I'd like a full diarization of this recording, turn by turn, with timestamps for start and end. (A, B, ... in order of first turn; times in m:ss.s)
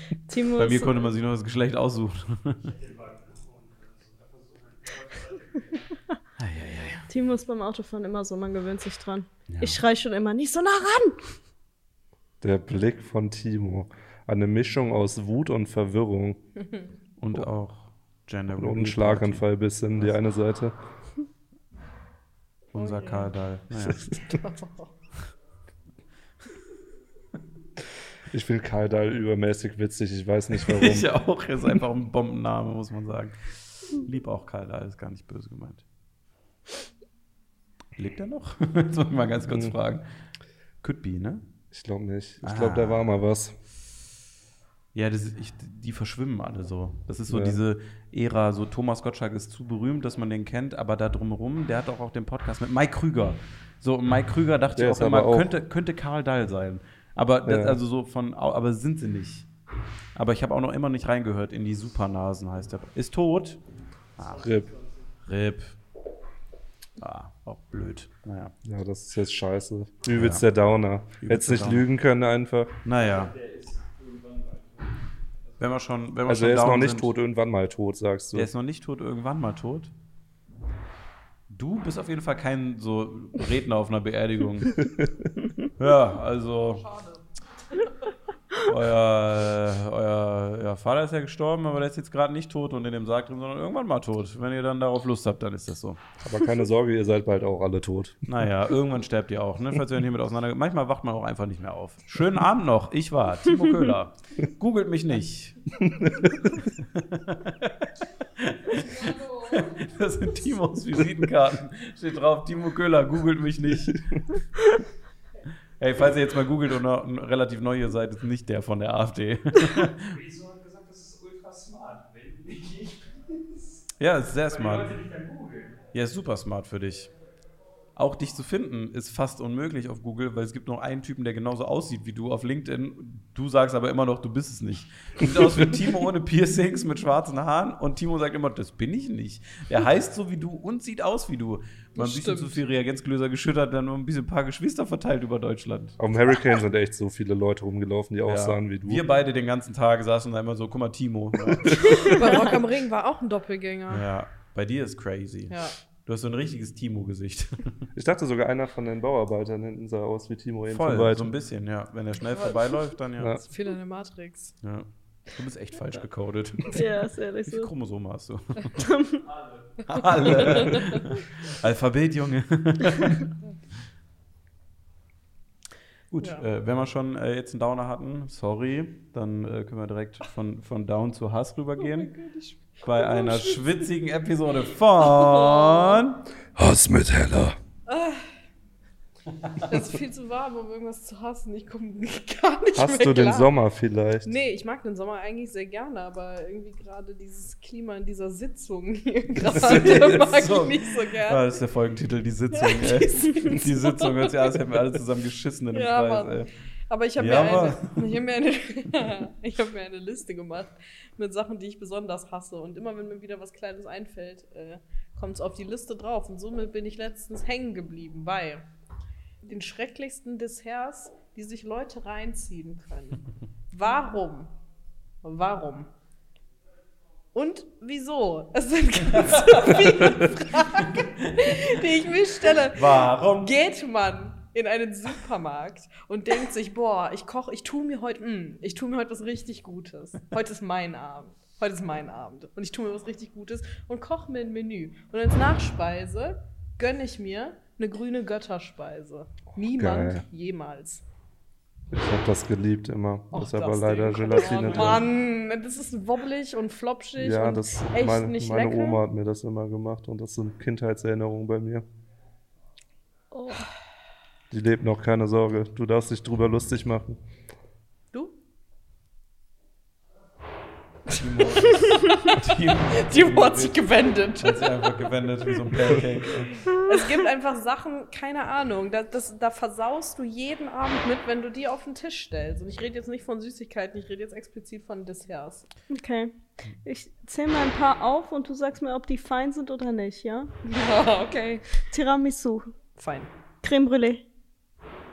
0:00.3-0:01.1 A
0:00.5-0:02.7 B
0:02.6-0:05.9 C
0:06.4-0:07.1 B
0:07.1-0:11.3 A
0:09.5-0:09.8 B
0:12.4-0:16.4 D
0:16.6-0:16.9 E
0:17.2-0:20.1 B
0:18.5-0:20.7 D
0:22.7-0:24.1 B
0:22.8-0:23.3 E
0:24.0-0:24.9 E
0:28.3-0:31.1 D
0:30.7-0:35.8 B
0:38.0-0:40.1 B
0:39.5-0:39.7 D
0:40.8-0:41.4 B
0:41.7-0:43.6 D
0:42.4-0:43.1 B
0:44.9-0:59.5 B
0:47.3-0:47.6 D
0:54.8-0:55.5 D
0:57.4-0:57.8 D
1:00.1-1:03.6 B
1:04.2-1:04.5 B
1:04.2-1:05.1 C
1:04.4-1:04.7 D
1:05.2-1:05.8 B
1:07.0-1:08.6 B
1:08.6-1:12.8 D
1:10.1-1:10.4 B
1:11.2-1:11.8 B
1:12.8-1:13.3 B
1:13.0-1:15.6 C
1:15.6-1:17.1 B
1:16.3-1:18.5 D
1:18.3-1:19.9 B
1:21.5-1:24.8 B
1:24.8-1:25.3 D
1:25.8-1:26.9 B
1:26.9-1:27.2 E
1:28.6-1:36.0 B
1:36.2-1:38.4 D
1:38.3-1:54.4 B
1:55.8-2:00.2 B
2:00.0-2:03.7 C
2:04.0-2:05.0 B
2:04.4-2:05.9 C
2:05.9-2:07.1 B
2:08.0-2:26.0 B
2:22.0-2:22.6 E
2:26.0-2:29.0 D
2:28.2-2:32.5 B
2:31.8-2:34.0 E
2:33.9-2:37.9 B
2:35.5-2:35.7 E
2:37.9-2:41.3 D
2:40.7-2:43.4 B
2:42.2-2:42.9 E
2:43.4-2:44.6 E
2:44.6-2:48.8 B
2:46.7-2:47.7 A
2:48.8-2:49.2 A
2:49.2-2:49.8 C
2:49.9-2:53.3 B
2:50.3-2:51.0 E
2:56.1-3:02.2 B
3:01.8-3:03.9 E
3:02.8-3:06.2 B
3:05.0-3:06.0 E
3:06.6-3:07.6 D
3:07.9-3:08.4 E
3:09.6-3:13.5 E
3:12.8-3:14.4 D
3:14.2-3:21.4 E
3:19.4-3:26.5 B
3:22.5-3:24.6 E
3:25.7-3:38.7 E
3:27.2-3:28.1 B
3:39.4-3:44.5 E
3:45.2-3:45.9 E
3:47.3-4:11.0 E
3:49.3-3:51.8 B
3:52.4-3:53.6 B
4:09.7-4:10.2 D
4:11.9-4:15.1 D
4:13.3-4:19.0 E
4:14.7-4:15.0 B
4:17.2-4:21.8 D
4:23.4-4:23.6 E
4:24.5-4:27.2 D
4:31.1-4:36.7 B
4:31.7-4:34.8 E
4:36.7-4:45.6 E
4:45.9-4:50.5 A
4:50.6-4:51.8 E
4:51.9-4:52.7 A
4:53.0-4:53.3 E
4:53.6-4:54.2 A